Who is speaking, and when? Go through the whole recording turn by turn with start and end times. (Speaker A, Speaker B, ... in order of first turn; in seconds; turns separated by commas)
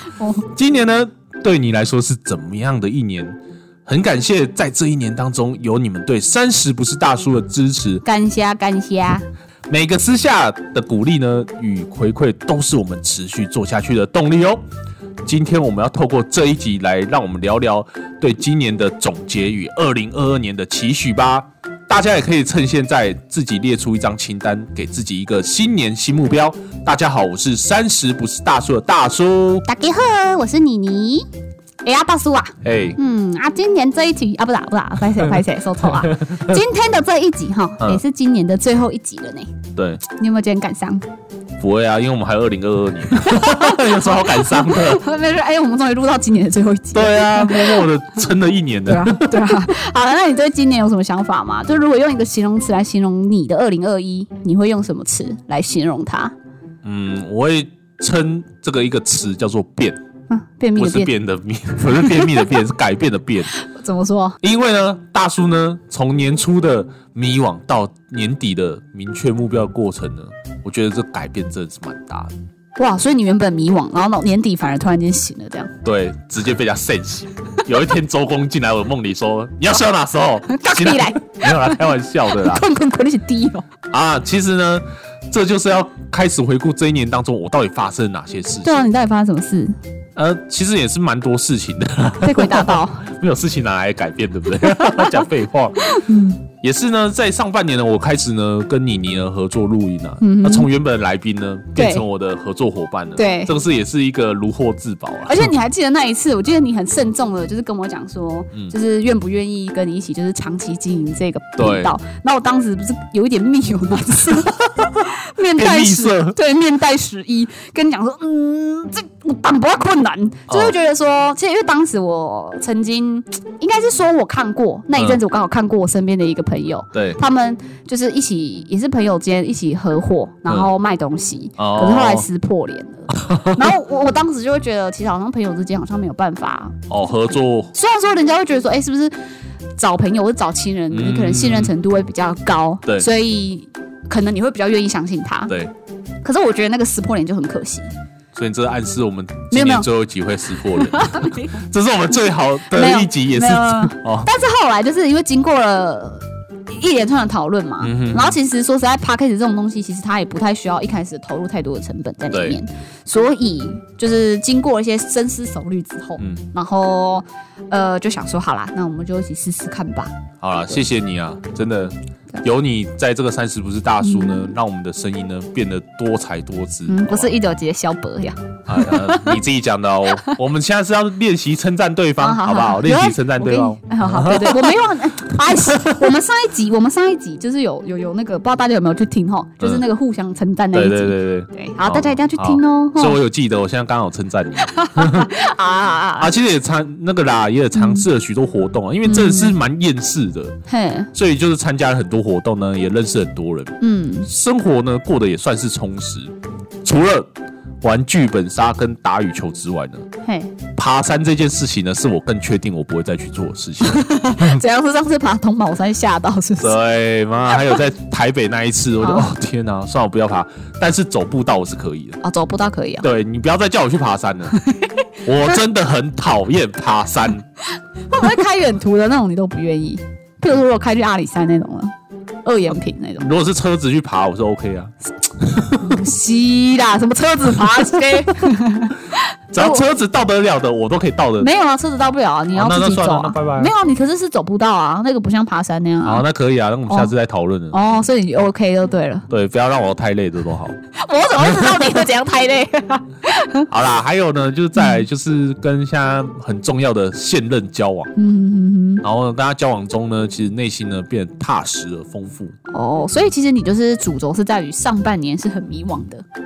Speaker A: 0.1-0.4, Speaker B: 0.4-8.0, Speaker A: 8.0-9.2, Speaker B: 9.7-14.6, Speaker B: 15.2-29.6, Speaker A: 29.6-31.3, Speaker A: 31.8-39.6, Speaker B: 32.6-33.0, Speaker B: 36.0-36.4, Speaker B: 39.8-40.0, Speaker A: 40.1-41.0, Speaker B: 41.6-45.0, Speaker A: 43.2-47.9, Speaker B: 46.9-49.7, Speaker A: 48.9-56.3, Speaker B: 56.8-60.0, Speaker A: 60.3-61.1, Speaker B: 60.8-63.5, Speaker A: 61.8-62.5, Speaker A: 63.5-64.4, Speaker B: 64.4-72.3, Speaker A: 72.8-75.7, Speaker B: 75.8-82.6, Speaker A: 80.5-83.7, Speaker B: 83.9-88.8, Speaker A: 88.6-89.8, Speaker B: 90.2-105.5, Speaker A: 92.2-93.0, Speaker A: 94.8-95.1, Speaker A: 95.8-96.4, Speaker A: 100.2-100.7, Speaker A: 101.8-102.0, Speaker A: 103.2-103.5, Speaker A: 105.2-136.8, Speaker B: 111.6-111.9, Speaker B: 114.7-116.4, Speaker B: 120.5-120.7, Speaker B: 126.9-127.2, Speaker B: 131.6-132.3, Speaker B: 133.1-133.7, Speaker B: 136.9-137.7, Speaker A: 137.7-139.1, Speaker A: 139.8-145.6, Speaker B: 140.9-141.7, Speaker A: 146.2-147.9, Speaker B: 148.3-154.3, Speaker A: 149.5-149.9, Speaker A: 150.7-151.6, Speaker A: 152.7-170.1, Speaker B: 157.8-158.4, Speaker B: 162.3-162.6, Speaker B: 170.4-177.3, Speaker A: 174.0-174.5, Speaker A: 176.9-179.4, Speaker B: 178.7-186.0, Speaker A: 182.2-193.2, Speaker B: 190.7-195.3, Speaker A: 194.6-196.3, Speaker B: 196.2-200.6, Speaker A: 197.7-198.1, Speaker A: 199.1-199.6, Speaker A: 200.7-201.1, Speaker B: 201.1-207.3, Speaker A: 203.8-204.3, Speaker B: 207.8-210.1, Speaker A: 210.2-210.5, Speaker B: 210.8-214.6, Speaker A: 213.8-216.8, Speaker B: 216.6-222.2, Speaker A: 219.0-219.3, Speaker A: 222.2-223.1, Speaker B: 223.0-224.6, Speaker A: 224.6-224.9, Speaker B: 225.2-227.4, Speaker A: 228.1-231.9, Speaker A: 232.4-233.3, Speaker B: 233.2-236.0, Speaker A: 235.8-239.8, Speaker B: 239.5-241.5, Speaker A: 241.4-246.2, Speaker B: 242.5-243.7, Speaker B: 246.0-247.8, Speaker A: 247.7-249.3, Speaker B: 249.3-250.8, Speaker A: 250.9-253.7, Speaker B: 251.4-251.9, Speaker B: 253.7-258.1, Speaker A: 254.8-255.0, Speaker A: 258.1-259.0, Speaker B: 259.0-262.5, Speaker A: 262.7-266.2